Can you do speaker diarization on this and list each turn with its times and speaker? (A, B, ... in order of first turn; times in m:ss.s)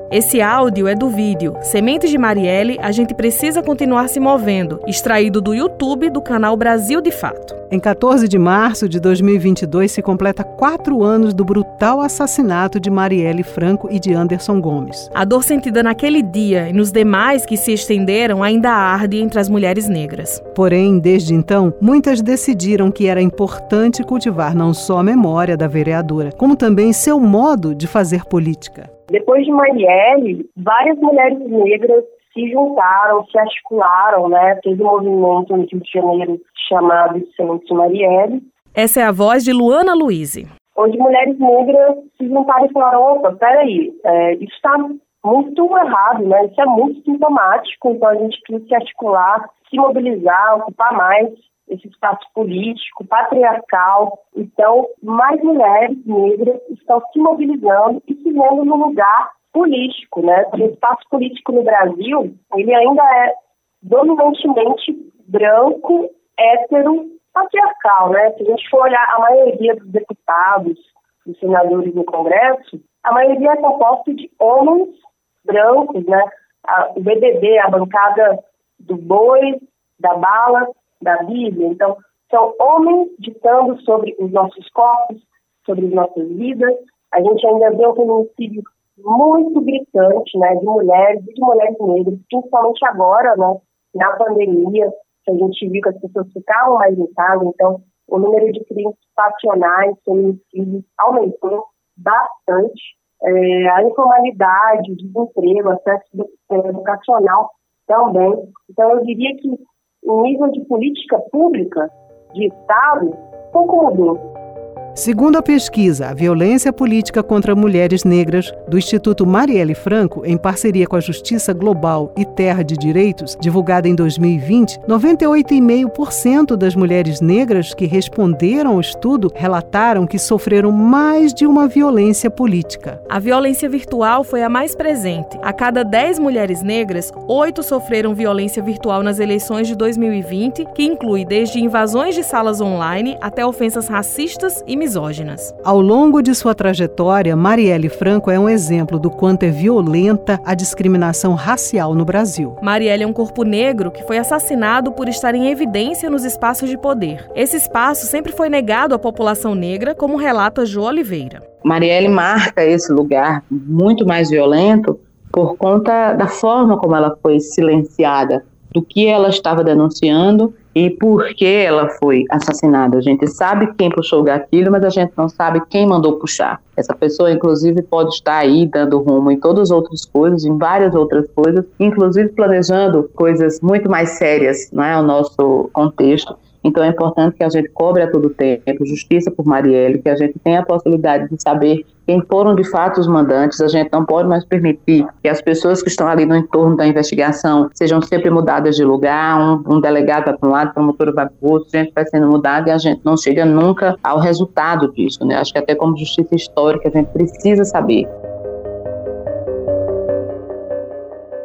0:00.1-0:07.6 A
0:07.7-0:15.1 B
0:15.1-0:20.4 A
0:20.5-0:28.9 B
0:29.1-0:38.4 C
0:38.7-0:40.5 A
0:40.8-1:54.3 C
1:54.9-2:13.0 B
2:13.1-2:25.5 A
2:25.6-2:32.6 B
2:32.6-2:41.4 A
2:41.6-3:28.1 D